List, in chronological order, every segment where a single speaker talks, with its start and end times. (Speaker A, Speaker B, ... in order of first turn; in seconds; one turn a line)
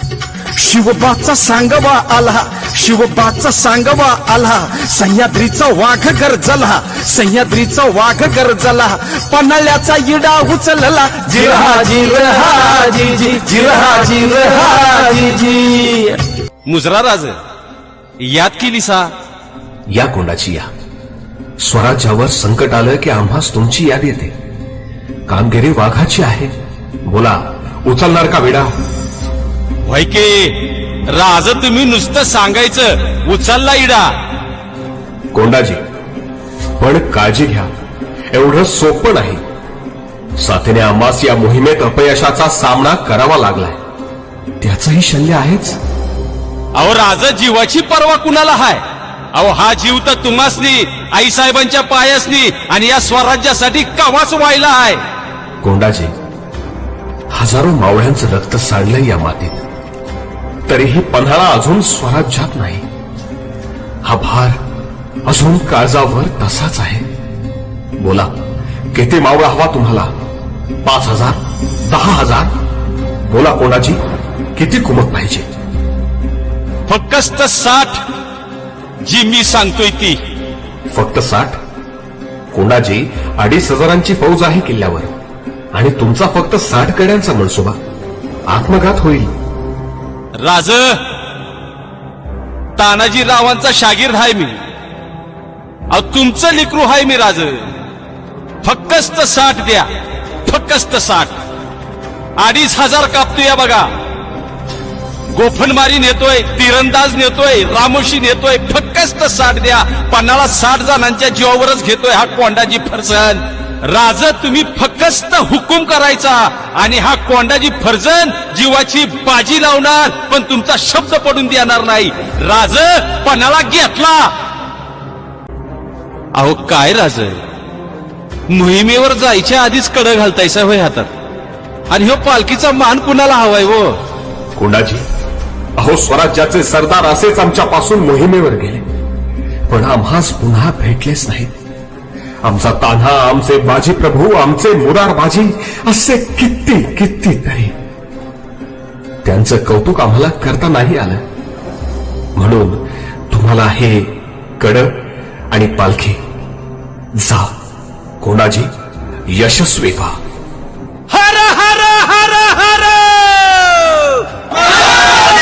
Speaker A: 0.6-17.4
Speaker A: 18.2-19.1
Speaker B: 19.9-20.7
Speaker B: 21.6-24.3
Speaker B: 25.3-26.5
Speaker B: 27.0-28.7
Speaker A: 29.9-34.1
Speaker B: 35.3-35.8
Speaker B: 36.8-37.7
Speaker B: 38.3-39.4
Speaker B: 40.4-43.8
Speaker B: 44.6-45.8
Speaker A: 46.8-48.8
Speaker A: 49.3-55.0
Speaker B: 55.6-56.1
Speaker B: 57.3-59.6
Speaker B: 60.7-62.8
Speaker B: 64.0-64.6
Speaker B: 65.2-67.0
Speaker B: 68.0-68.3
Speaker B: 68.9-70.1
Speaker B: 70.8-72.5
Speaker B: 73.3-74.0
Speaker B: 74.5-75.5
Speaker A: 76.9-78.0
Speaker A: 79.0-80.2
Speaker B: 80.9-81.6
Speaker B: 82.5-85.1
Speaker B: 85.7-87.8
Speaker B: 88.5-89.3
Speaker A: 90.4-91.0
Speaker A: 92.8-94.6
Speaker A: 95.9-97.7
Speaker A: 98.6-99.9
Speaker A: 100.4-101.3
Speaker A: 102.4-103.9
Speaker A: 105.3-124.3
Speaker A: 126.3-127.4
Speaker A: 128.5-131.1
Speaker A: 131.9-134.0
Speaker B: 134.6-135.0
Speaker B: 135.8-138.8
Speaker B: 139.7-141.5
Speaker B: 142.4-147.7
Speaker B: 149.2-151.2
Speaker B: 152.3-156.2
Speaker B: 157.2-157.5
Speaker B: 158.2-158.7
Speaker B: 159.3-160.2
Speaker A: 161.1-164.1